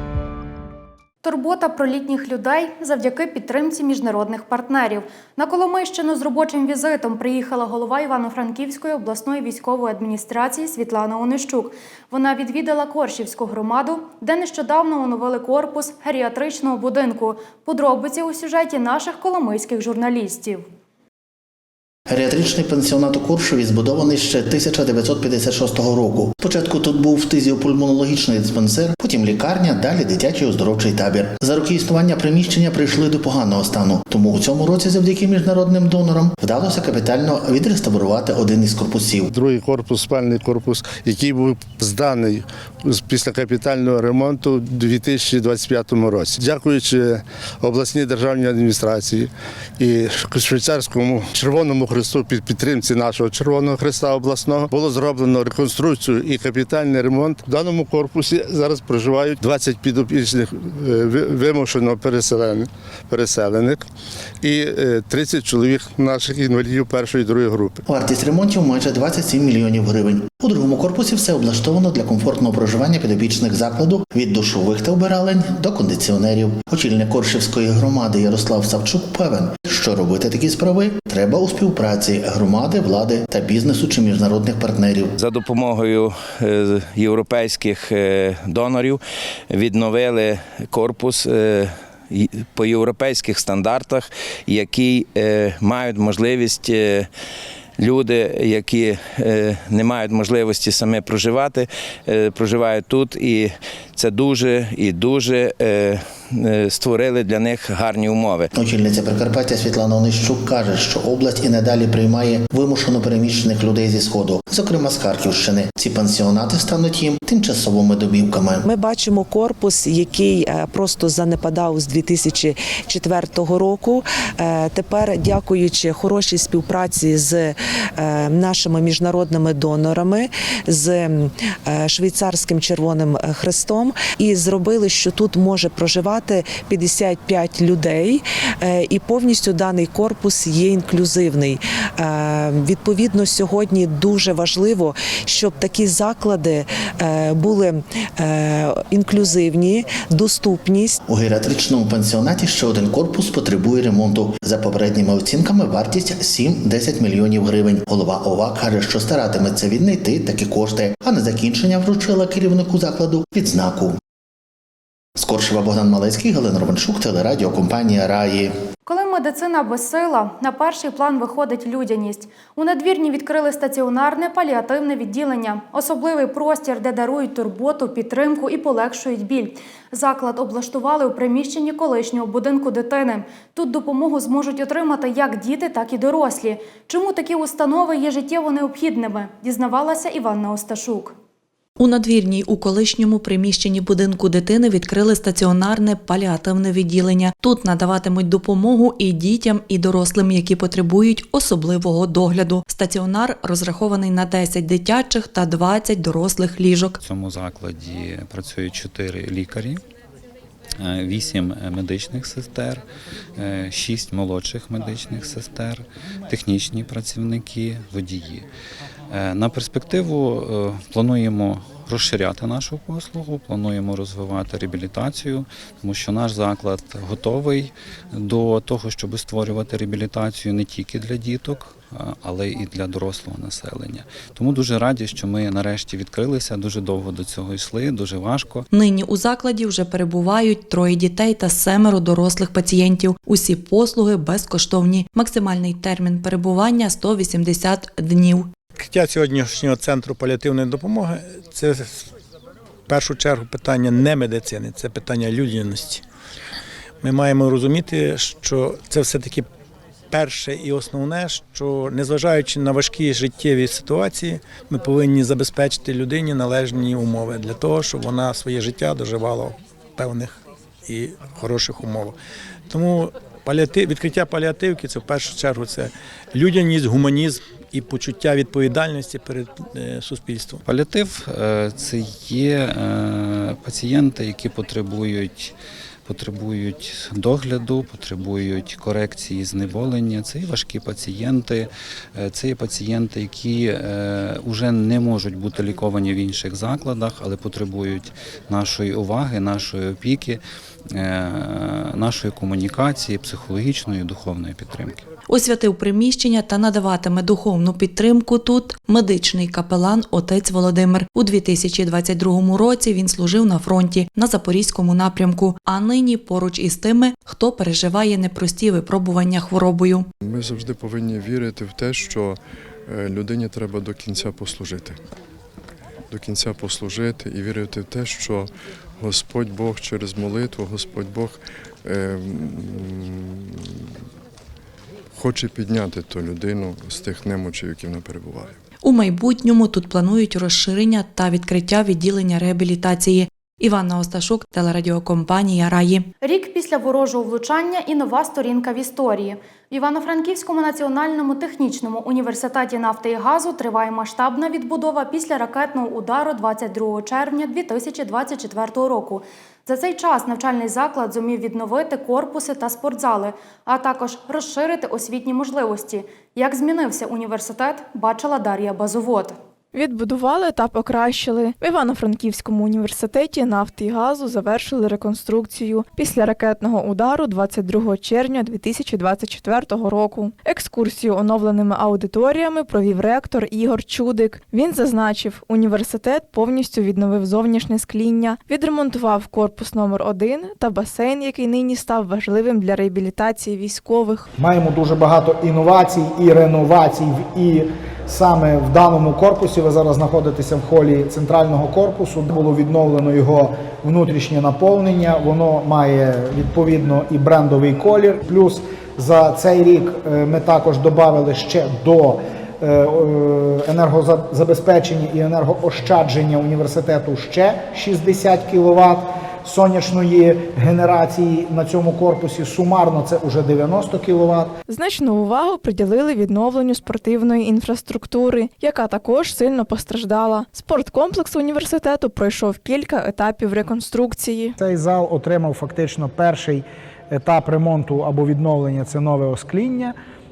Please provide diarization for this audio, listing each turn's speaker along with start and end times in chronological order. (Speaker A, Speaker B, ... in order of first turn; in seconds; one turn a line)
Speaker A: 1.2-20.6
Speaker B: 22.1-39.3
Speaker C: 39.3-63.9
Speaker C: 64.4-67.8
Speaker B: 67.9-85.1
Speaker D: 85.2-97.1
Speaker D: 97.8-108.5
Speaker B: 108.5-118.7
Speaker E: 118.7-151.0
Speaker B: 151.1-164.0
Speaker B: 165.2-168.5
Speaker A: 168.8-191.1
Speaker F: 191.8-207.0
Speaker G: 207.0-209.8
Speaker G: 210.8-212.8
Speaker G: 213.3-218.5
Speaker G: 219.1-238.7
Speaker F: 238.7-248.5
Speaker H: 248.7-252.1
Speaker H: 252.9-256.0
Speaker H: 257.0-259.5
Speaker H: 260.1-272.1
Speaker H: 272.7-280.6
Speaker G: 280.6-300.4
Speaker G: 300.9-305.1
Speaker F: 305.3-320.1
Speaker I: 320.2-325.0
Speaker I: 326.1-333.7
Speaker I: 335.1-338.6
Speaker F: 338.8-346.1
Speaker A: 346.2-369.4
Speaker J: 369.7-394.3
Speaker K: 394.4-424.5
Speaker J: 424.7-434.6
Speaker K: 434.6-439.9